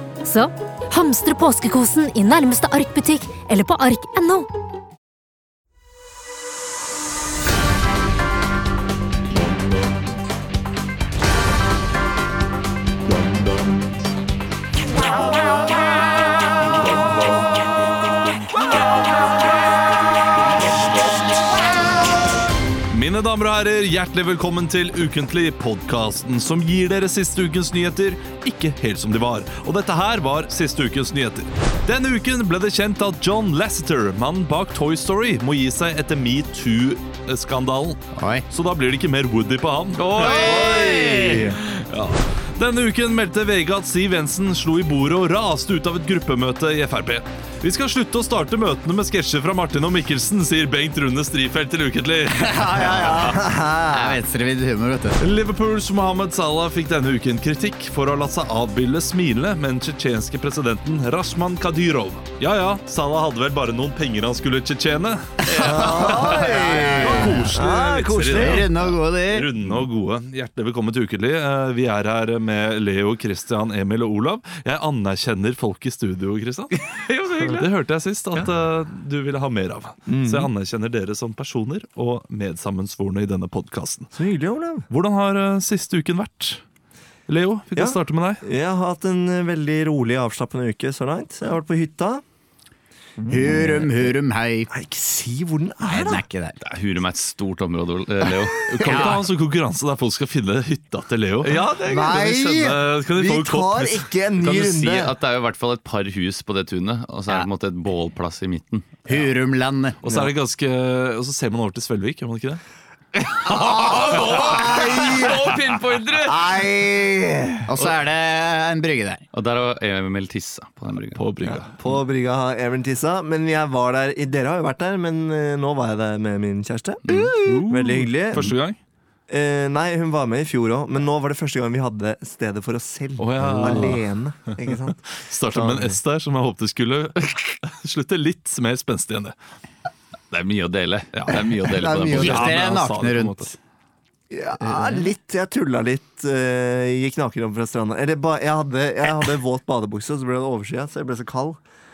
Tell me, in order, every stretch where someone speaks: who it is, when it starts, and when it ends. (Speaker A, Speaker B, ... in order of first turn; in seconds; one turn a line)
Speaker A: 0.2-4.5
Speaker B: 22.9-53.2
Speaker C: 38.1-38.5
Speaker D: 40.0-41.5
Speaker C: 40.2-40.8
Speaker E: 40.3-41.6
Speaker C: 52.3-55.2
Speaker E: 52.9-54.2
Speaker B: 55.2-76.7
Speaker E: 65.5-68.7
Speaker C: 65.5-67.5
Speaker C: 68.3-69.5
Speaker D: 76.9-77.7
Speaker B: 77.4-84.1
Speaker E: 80.1-80.5
Speaker E: 84.1-84.9
Speaker B: 84.9-86.6
Speaker B: 87.3-88.4
Speaker E: 87.7-92.2
Speaker E: 93.2-94.1
Speaker C: 93.3-94.7
Speaker E: 94.7-96.2
Speaker C: 95.8-96.6
Speaker D: 96.6-98.8
Speaker B: 98.7-104.8
Speaker C: 98.8-99.2
Speaker E: 101.8-105.1
Speaker D: 104.6-109.0
Speaker C: 109.0-110.0
Speaker B: 110.0-112.6
Speaker D: 113.5-116.5
Speaker C: 113.5-114.5
Speaker E: 113.7-115.5
Speaker E: 116.3-117.6
Speaker C: 117.6-119.2
Speaker D: 119.3-121.2
Speaker B: 121.1-121.8
Speaker E: 121.4-128.6
Speaker B: 127.1-128.8
Speaker E: 129.3-136.0
Speaker B: 133.2-134.0
Speaker B: 134.6-139.3
Speaker D: 140.3-142.6
Speaker B: 141.1-143.5
Speaker E: 141.7-142.5
Speaker C: 142.1-143.5
Speaker E: 144.3-151.6
Speaker C: 144.6-145.0